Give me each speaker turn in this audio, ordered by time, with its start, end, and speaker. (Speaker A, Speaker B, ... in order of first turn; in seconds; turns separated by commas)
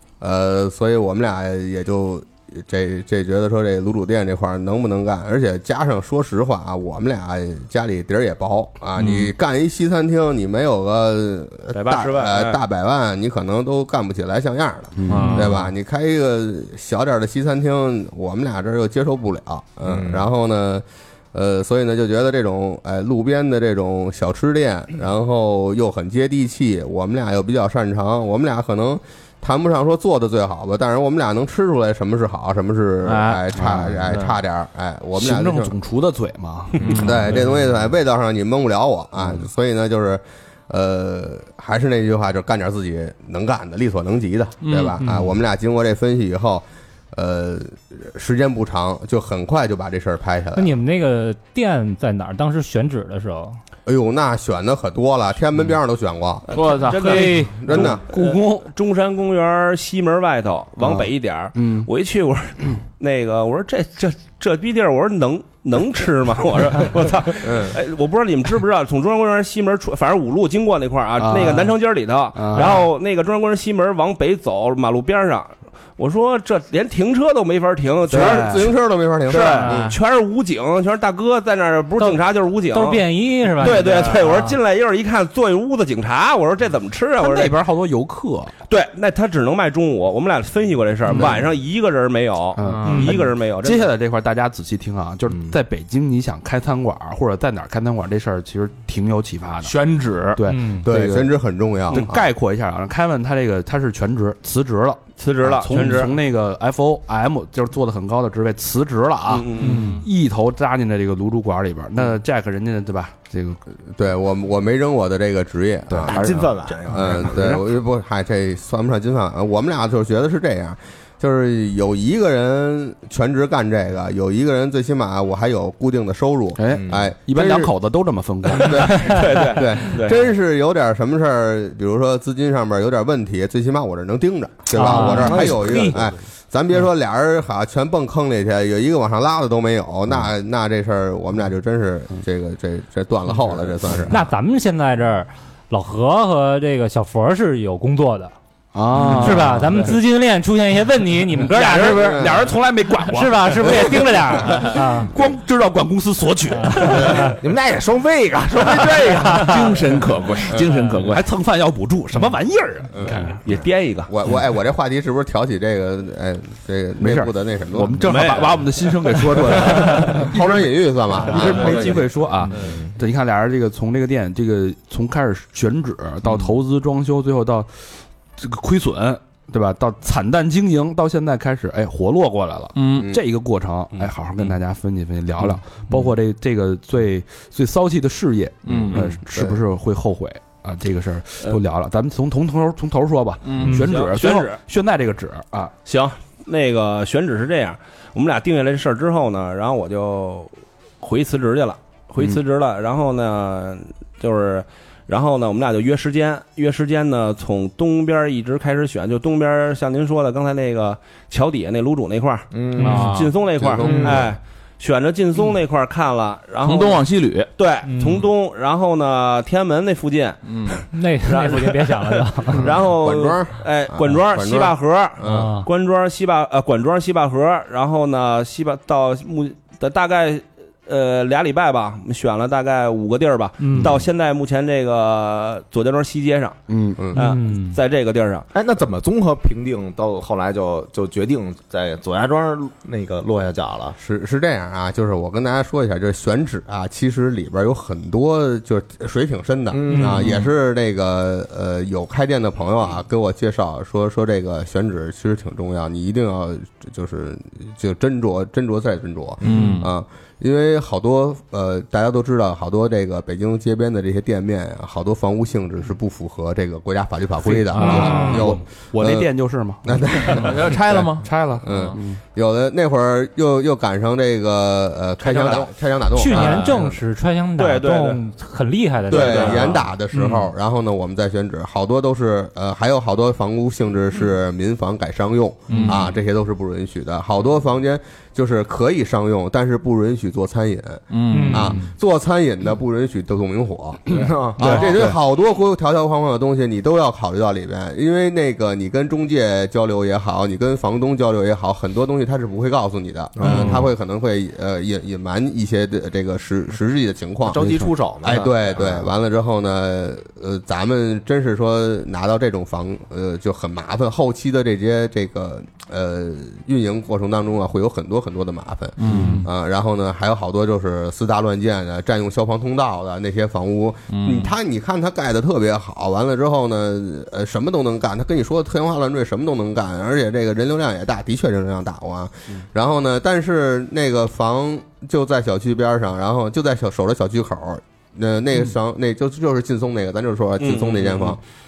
Speaker A: 0.2-35.7, Speaker B: 9.0-9.3, Speaker C: 11.7-12.6, Speaker D: 15.0-15.5, Speaker B: 15.1-15.6, Speaker E: 15.2-15.5, Speaker F: 19.9-20.2, Speaker B: 33.1-33.4, Speaker D: 33.2-34.2, Speaker B: 34.0-34.3, Speaker D: 35.1-37.4, Speaker A: 36.8-50.7, Speaker B: 36.8-37.4, Speaker B: 44.6-45.2, Speaker E: 50.5-53.6, Speaker A: 53.9-56.5, Speaker C: 56.5-83.0, Speaker B: 56.5-57.4, Speaker E: 57.0-57.6, Speaker A: 57.5-58.0, Speaker D: 57.7-58.7, Speaker D: 61.5-61.9, Speaker A: 67.4-67.8, Speaker D: 71.2-71.8, Speaker D: 72.3-72.8, Speaker D: 78.1-78.7, Speaker A: 78.1-79.9, Speaker E: 82.0-84.5, Speaker C: 83.6-87.5, Speaker D: 87.2-88.5, Speaker C: 88.7-93.9, Speaker D: 92.6-99.8, Speaker B: 92.6-93.1, Speaker E: 92.8-93.1, Speaker B: 99.6-100.4, Speaker D: 100.3-101.3, Speaker E: 100.5-100.9, Speaker A: 100.8-102.2, Speaker D: 101.9-113.6, Speaker C: 105.2-106.2, Speaker C: 109.3-109.9, Speaker E: 109.6-110.0, Speaker B: 109.6-110.0, Speaker A: 114.0-127.7, Speaker D: 116.0-117.6, Speaker F: 116.0-117.6, Speaker D: 126.6-129.4, Speaker F: 126.7-127.1, Speaker A: 128.5-144.2, Speaker C: 128.7-130.2, Speaker E: 134.8-136.0, Speaker D: 135.0-135.6, Speaker F: 135.2-135.8, Speaker E: 144.1-148.3, Speaker D: 148.7-150.0, Speaker E: 149.2-152.3, Speaker D: 151.5-157.3, Speaker A: 151.9-152.4, Speaker E: 153.1-155.1, Speaker E: 156.6-157.3, Speaker F: 157.4-159.7, Speaker B: 158.8-161.2, Speaker D: 161.0-163.4, Speaker A: 162.9-163.3, Speaker C: 163.4-164.1, Speaker A: 164.1-168.2, Speaker D: 167.0-195.7, Speaker C: 168.0-168.7, Speaker A: 169.5-172.1, Speaker B: 182.8-183.1, Speaker B: 188.7-189.2, Speaker B: 193.4-193.8, Speaker C: 193.7-194.6, Speaker C: 195.8-217.1, Speaker F: 212.5-213.0, Speaker E: 212.8-213.2, Speaker B: 212.8-213.3, Speaker A: 213.5-214.3, Speaker F: 213.8-214.3, Speaker B: 216.6-217.5, Speaker C: 217.6-236.6, Speaker E: 217.8-218.3, Speaker B: 220.5-220.8, Speaker E: 220.9-222.6, Speaker A: 222.7-225.5, Speaker E: 225.2-225.7, Speaker E: 233.6-233.9, Speaker D: 236.7-237.1, Speaker C: 237.1-238.5, Speaker E: 237.2-237.8, Speaker F: 238.5-243.9, Speaker A: 244.0-269.3, Speaker F: 249.7-250.3, Speaker E: 249.9-250.2, Speaker B: 259.4-259.9, Speaker D: 267.4-272.2, Speaker B: 267.7-268.4, Speaker E: 267.8-268.4, Speaker A: 269.8-276.9, Speaker B: 270.3-272.0, Speaker C: 275.2-275.7, Speaker E: 276.1-279.8, Speaker C: 277.6-278.2, Speaker C: 279.1-279.8, Speaker A: 279.1-307.6, Speaker B: 285.7-286.1, Speaker B: 291.1-291.8, Speaker E: 291.3-291.8, Speaker F: 294.1-294.8, Speaker D: 294.6-295.2, Speaker F: 303.4-303.7, Speaker D: 303.5-303.8, Speaker F: 307.5-309.1, Speaker A: 308.2-341.4, Speaker B: 319.0-319.5, Speaker D: 319.1-319.3, Speaker B: 324.1-324.5, Speaker C: 340.6-341.4